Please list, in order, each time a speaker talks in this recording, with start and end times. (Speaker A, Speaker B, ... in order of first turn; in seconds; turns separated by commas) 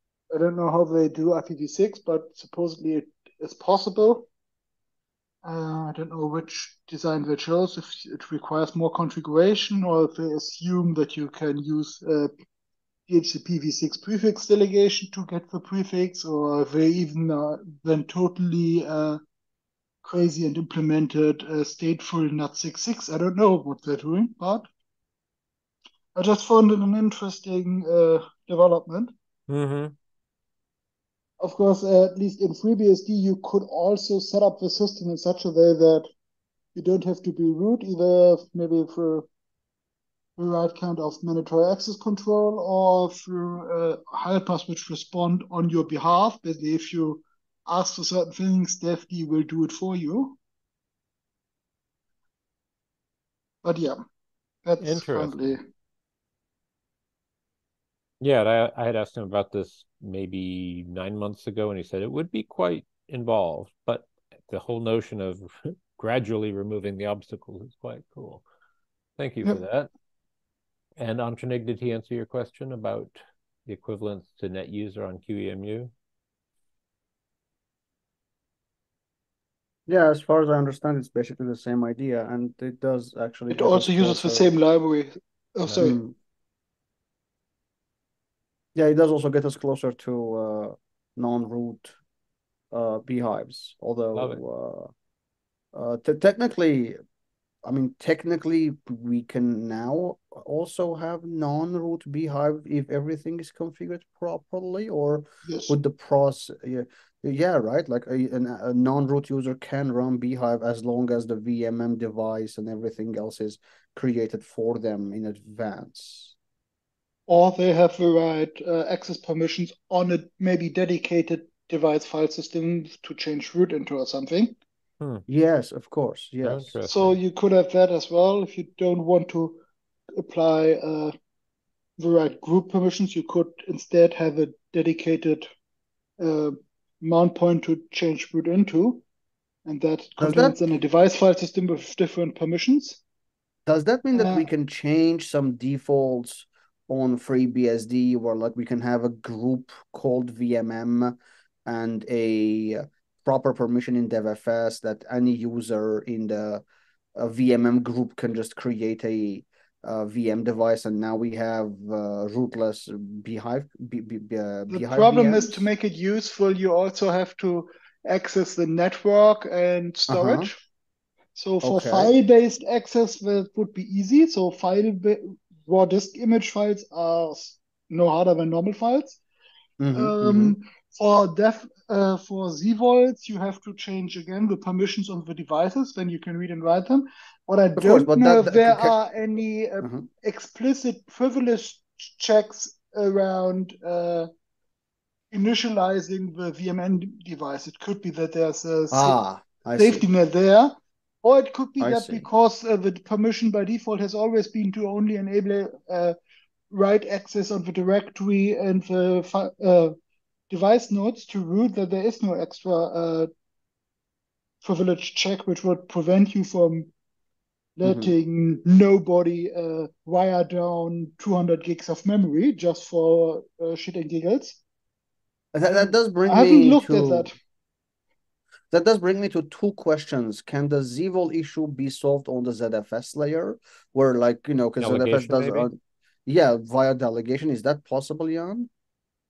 Speaker A: 0.3-4.3, Speaker A: 5.4-12.3, Speaker A: 13.1-19.2, Speaker A: 20.0-24.7, Speaker A: 26.1-29.1, Speaker B: 29.5-29.9, Speaker A: 31.4-36.1, Speaker A: 36.7-39.3, Speaker A: 40.4-50.4, Speaker A: 53.6-54.0, Speaker A: 54.6-55.6, Speaker B: 54.8-55.6, Speaker B: 58.2-68.4, Speaker B: 69.2-69.9, Speaker B: 71.0-75.9, Speaker C: 79.9-84.5, Speaker A: 83.5-86.0, Speaker C: 85.7-86.2, Speaker C: 88.7-92.0, Speaker C: 92.7-94.9, Speaker B: 94.1-94.4, Speaker C: 95.7-97.0, Speaker C: 97.6-116.3, Speaker A: 105.5-105.7, Speaker A: 117.3-124.5, Speaker B: 125.0-125.2, Speaker C: 125.3-126.7, Speaker B: 126.4-127.2, Speaker A: 126.8-129.6, Speaker A: 130.1-131.1, Speaker A: 132.0-135.5, Speaker A: 136.2-139.0, Speaker A: 139.7-143.0, Speaker C: 140.2-140.6, Speaker C: 143.7-156.6, Speaker A: 144.1-144.5, Speaker C: 157.2-165.7, Speaker A: 164.7-170.5, Speaker C: 170.1-170.5, Speaker A: 171.3-179.2, Speaker C: 171.6-172.1, Speaker C: 179.8-180.6, Speaker A: 179.9-194.3, Speaker C: 187.8-188.9, Speaker C: 189.8-190.1, Speaker A: 195.3-199.2, Speaker C: 198.9-200.0, Speaker A: 199.8-206.2, Speaker C: 201.8-202.2, Speaker A: 206.7-209.9, Speaker A: 210.5-213.3, Speaker A: 214.6-216.9, Speaker A: 217.8-224.6, Speaker C: 217.8-218.1, Speaker C: 225.5-227.3, Speaker A: 225.7-227.3, Speaker C: 228.7-238.7, Speaker B: 234.8-235.7